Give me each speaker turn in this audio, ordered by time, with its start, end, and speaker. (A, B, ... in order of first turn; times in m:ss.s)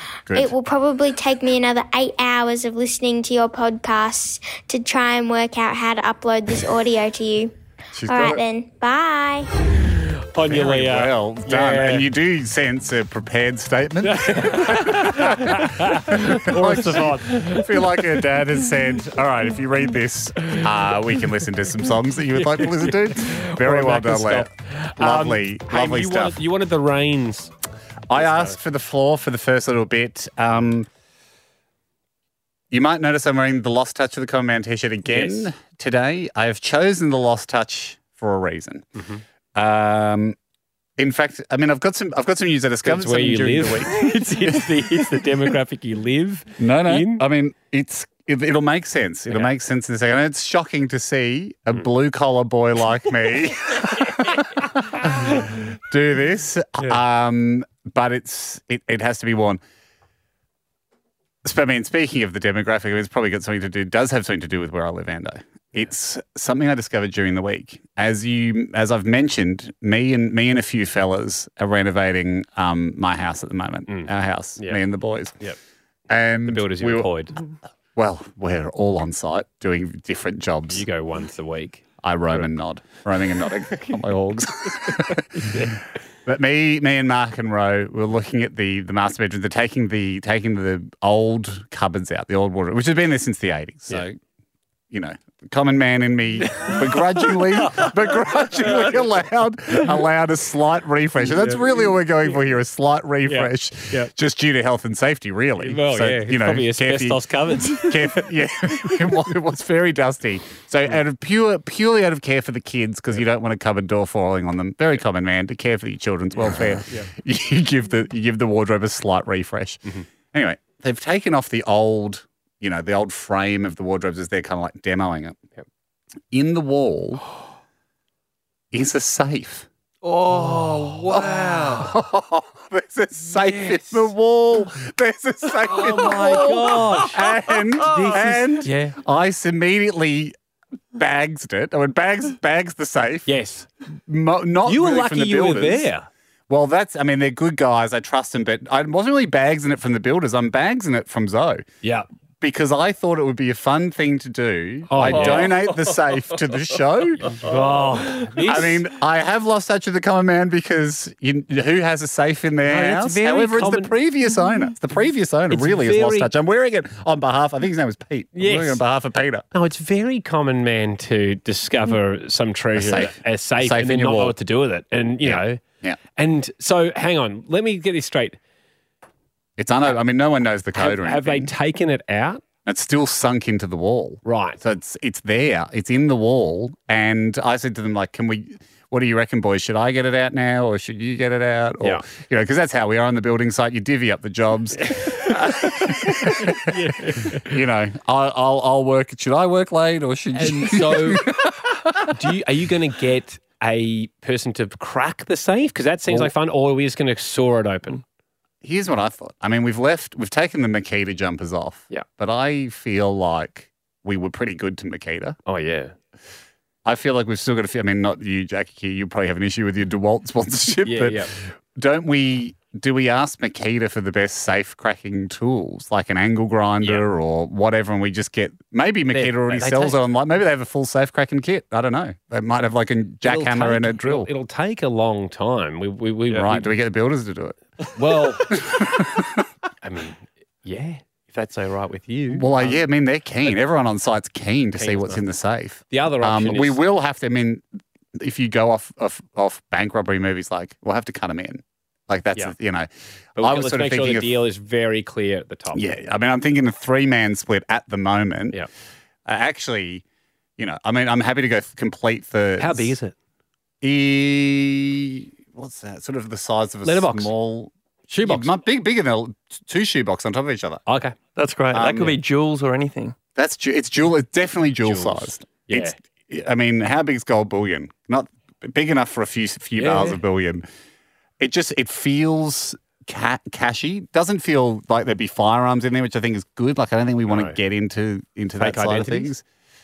0:00.3-0:07.5 A
0:08.0-0:08.4 B
0:08.0-0:09.5 A
0:10.0-0:12.1 C
0:10.4-0:26.4 B
0:14.0-0:18.2 C
0:22.4-0:27.5 C
0:28.1-0:30.9 B
0:28.2-0:28.6 C
0:32.7-0:38.9 B
0:35.1-0:35.5 C
0:39.0-0:39.2 C
0:39.6-0:40.4 B
0:41.0-0:45.2 B
0:42.8-0:47.2 C
0:46.6-0:59.6 B
1:01.4-1:15.4 B
1:13.9-1:14.8 C
1:16.1-1:17.1 B
1:16.5-1:17.4 C
1:18.0-1:20.8 B
1:20.7-1:22.5 C
1:22.0-1:34.2 B
1:24.9-1:25.8 C
1:34.9-2:05.4 B
1:43.3-1:44.1 C
1:45.6-1:48.3 C
1:56.8-1:57.1 C
2:06.3-2:07.3 B
2:08.7-2:09.7 B
2:10.0-2:11.4 D
2:10.5-2:11.0 C
2:11.1-2:20.4 B
2:13.5-2:13.9 C
2:15.7-2:19.0 C
2:21.0-2:23.3 B
2:23.3-2:23.7 C
2:23.9-2:25.9 B
2:24.6-2:26.1 C
2:26.5-2:31.6 B
2:32.4-2:37.3 B
2:34.9-2:35.6 C
2:35.1-2:35.8 D
2:37.4-2:38.8 C
2:38.4-2:49.4 B
2:42.6-2:43.9 C
2:45.5-2:46.3 C
2:48.4-2:48.8 C
2:49.5-2:55.6 C
2:52.8-2:54.4 B
2:55.2-2:56.0 B
2:56.2-2:58.4 C
2:59.6-3:01.5 B
3:00.8-3:02.4 C
3:02.6-3:22.1 B
3:04.2-3:04.6 C
3:14.8-3:17.5 C
3:20.4-3:21.3 C
3:22.1-3:28.0 C
3:28.6-3:35.4 B
3:35.5-3:35.9 C
3:36.8-3:54.3 B
3:40.8-3:41.3 C
3:49.1-3:50.0 C
3:53.2-3:56.7 C
3:56.3-3:57.6 B
3:58.0-3:58.5 C
3:58.5-3:59.5 B
3:59.8-4:02.8 C
4:02.3-4:14.3 B
4:04.8-4:05.2 C
4:05.9-4:06.8 C
4:13.4-4:15.9 C
4:15.7-4:18.6 B
4:19.3-4:20.0 B
4:20.6-4:23.0 B
4:22.6-4:23.1 C
4:23.8-4:30.8 B
4:26.8-4:27.3 C
4:28.1-4:28.5 C
4:30.9-4:31.2 C
4:31.4-4:33.2 D
4:31.7-4:32.2 B
4:33.4-4:40.6 B
4:34.8-4:36.0 C
4:39.8-4:40.2 C
4:41.4-4:49.4 B
4:47.3-4:47.6 C
4:48.6-4:49.3 C